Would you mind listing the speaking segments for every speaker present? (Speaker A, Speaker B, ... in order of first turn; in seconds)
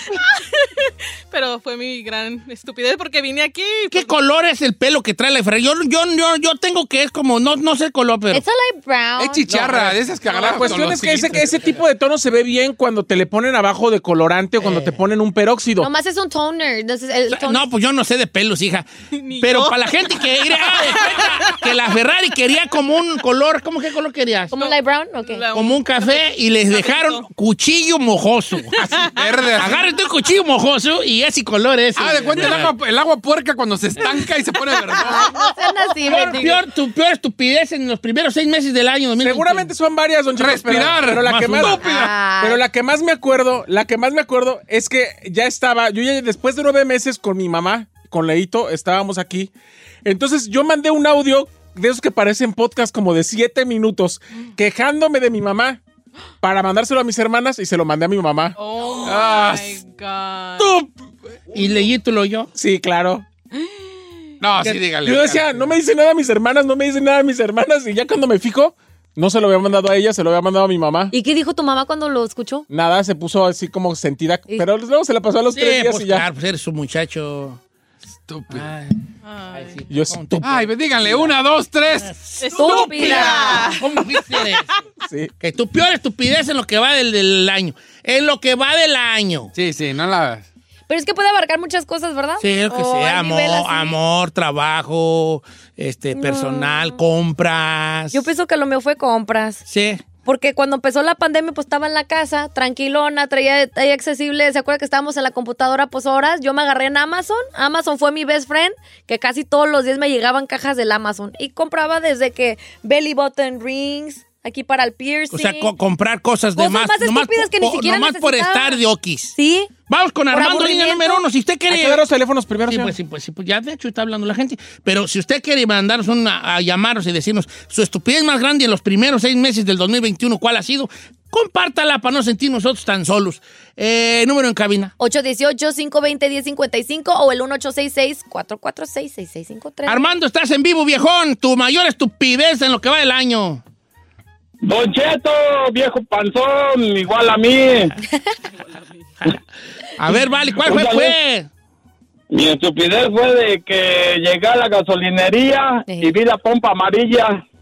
Speaker A: 0.1-4.1, 10.3-10.6, 19.1-22.0, 24.5-27.3, 28.7-29.5, 34.9-35.5, 58.5-60.8, 79.2-79.9, 82.4-84.6
Speaker B: 3.9-8.4, 9.5-9.8, 11.0-11.6, 14.6-15.0, 17.3-18.9, 19.4-24.5, 25.5-32.7, 36.0-39.7, 61.5-62.5, 75.5-77.6, 78.5-79.0, 79.5-81.3, 82.0-84.7, 85.4-89.5, 92.4-98.2, 99.7-100.0, 115.3-119.4, 119.9-122.0, 122.7-134.9, 139.8-143.6, 150.0-151.5
Speaker C: 8.3-9.5, 15.8-17.7, 24.5-25.4, 35.0-36.6, 41.7-42.6, 71.1-72.7, 82.5-83.8, 90.9-93.9, 96.1-97.0, 98.1-99.6, 100.2-115.7, 116.6-118.8, 119.3-119.7, 120.3-121.2, 135.0-140.1, 155.9-156.1
Speaker D: 9.2-11.5, 29.1-29.8, 31.9-35.3, 40.4-42.1, 59.0-59.8, 64.4-65.5, 78.3-78.7, 80.4-82.1, 89.5-90.5
Speaker E: 10.4-15.9, 39.2-41.8, 42.4-49.5, 50.0-55.8, 56.4-58.5, 62.5-63.3, 65.0-71.1, 72.7-76.2, 79.9-80.4, 121.7-122.9
Speaker F: 144.6-147.9, 150.6-151.1, 152.3-157.4